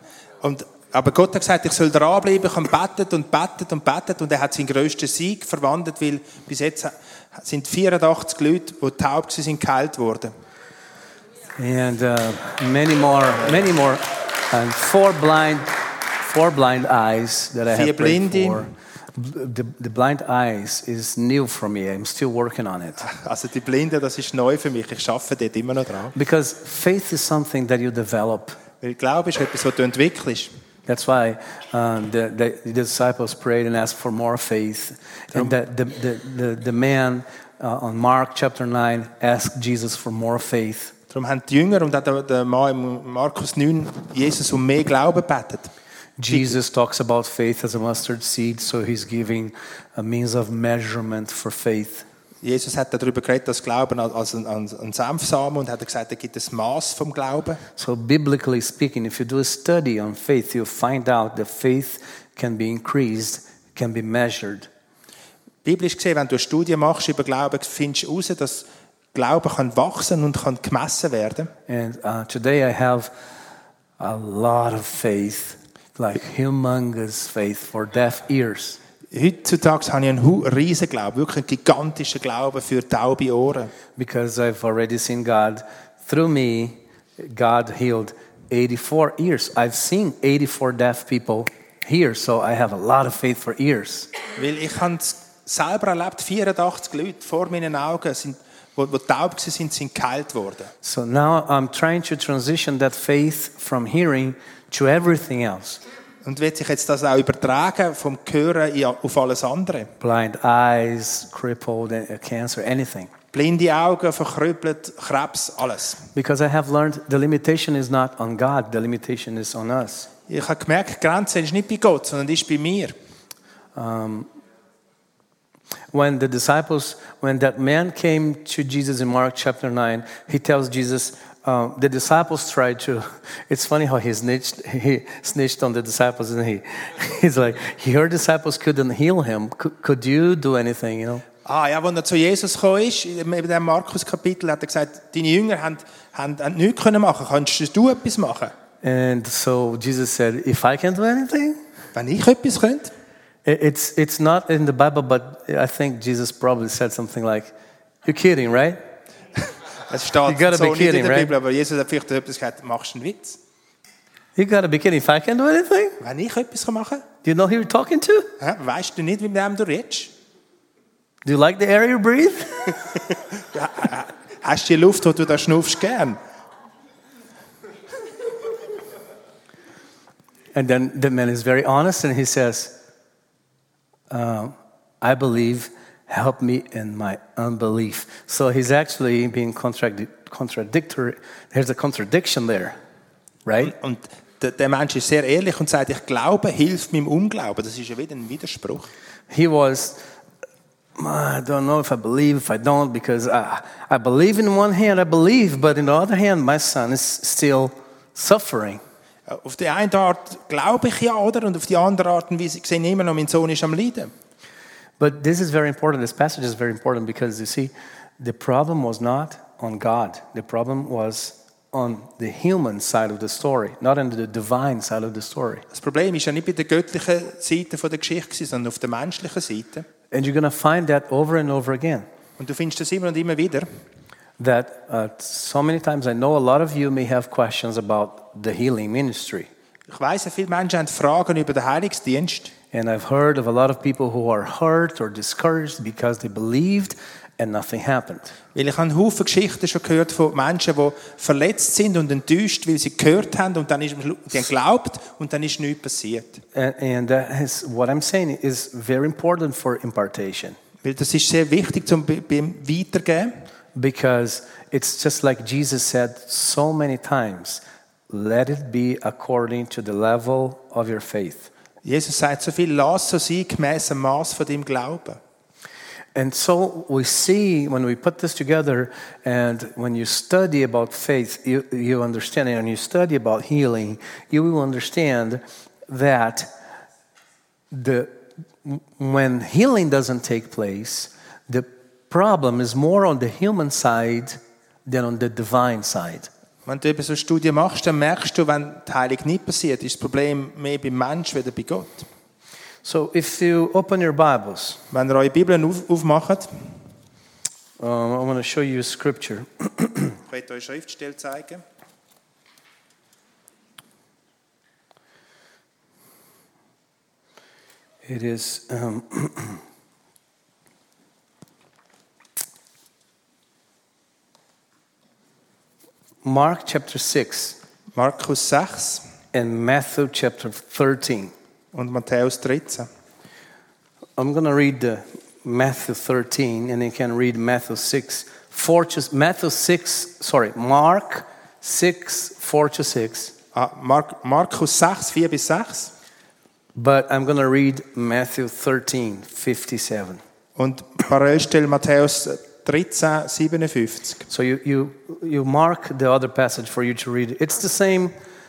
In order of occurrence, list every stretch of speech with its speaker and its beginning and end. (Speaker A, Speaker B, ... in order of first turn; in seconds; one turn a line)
Speaker A: 0.4-10.3
Speaker B: 11.6-23.1
Speaker A: 17.7-18.7
Speaker A: 23.0-26.1
Speaker B: 26.1-28.6
Speaker A: 28.8-30.5
Speaker B: 30.9-40.9
Speaker A: 41.1-45.7
Speaker B: 46.2-52.0
Speaker A: 52.4-57.6
Speaker B: 57.8-64.7
Speaker A: 65.6-71.5
Speaker B: 71.7-73.1
Speaker B: 74.0-78.8
Speaker A: 79.1-83.7
Speaker B: 84.0-94.1
Speaker A: 94.3-100.7
Speaker B: 100.8-105.8
Speaker A: 106.2-109.9
Speaker B: 110.0-113.1
Speaker A: 113.3-116.0
Speaker B: 116.1-120.1
Speaker A: 120.3-122.9
Speaker B: 123.8-124.3
Speaker B: 125.9-141.2
Speaker A: 141.4-148.5
Speaker B: 148.8-151.6
Speaker A: 151.9-152.9
Speaker B: 153.4-157.5
Speaker B: 158.0-158.8
Speaker A: 159.4-163.4
Speaker B: 160.2-161.3
Speaker B: 164.3-166.0
Speaker A: 166.0-167.0
Speaker B: 167.2-168.3
Speaker A: 168.4-170.1
Speaker B: 171.2-172.8
Speaker A: 173.3-176.2
Speaker B: 180.5-182.8
Speaker B: 184.1-192.8
Speaker B: 193.4-193.7
Speaker A: 193.6-198.9
Speaker B: 199.3-200.0
Speaker B: 201.0-208.8
Speaker A: 209.3-214.1
Speaker B: 215.0-225.6
Speaker A: 225.7-229.8
Speaker B: 230.1-232.1
Speaker A: 232.4-233.7
Speaker B: 234.4-239.5
Speaker A: 239.9-242.5
Speaker B: 242.7-248.3
Speaker A: 248.5-256.4
Speaker B: 256.5-260.6
Speaker A: 260.8-263.3
Speaker B: 263.8-271.5
Speaker A: 271.8-275.2
Speaker B: 276.1-286.5
Speaker B: 287.7-296.3
Speaker A: 296.6-302.1
Speaker B: 302.8-304.8
Speaker A: 304.9-306.5
Speaker B: 307.8-310.2
Speaker A: 310.3-311.6
Speaker B: 318.1-319.6
Speaker B: 326.2-327.6
Speaker A: 327.9-329.1
Speaker B: 329.3-331.3
Speaker A: 331.7-332.9
Speaker B: 334.2-343.3
Speaker A: 343.5-345.9
Speaker B: 346.8-350.2
Speaker A: 350.6-354.2
Speaker B: 354.3-358.1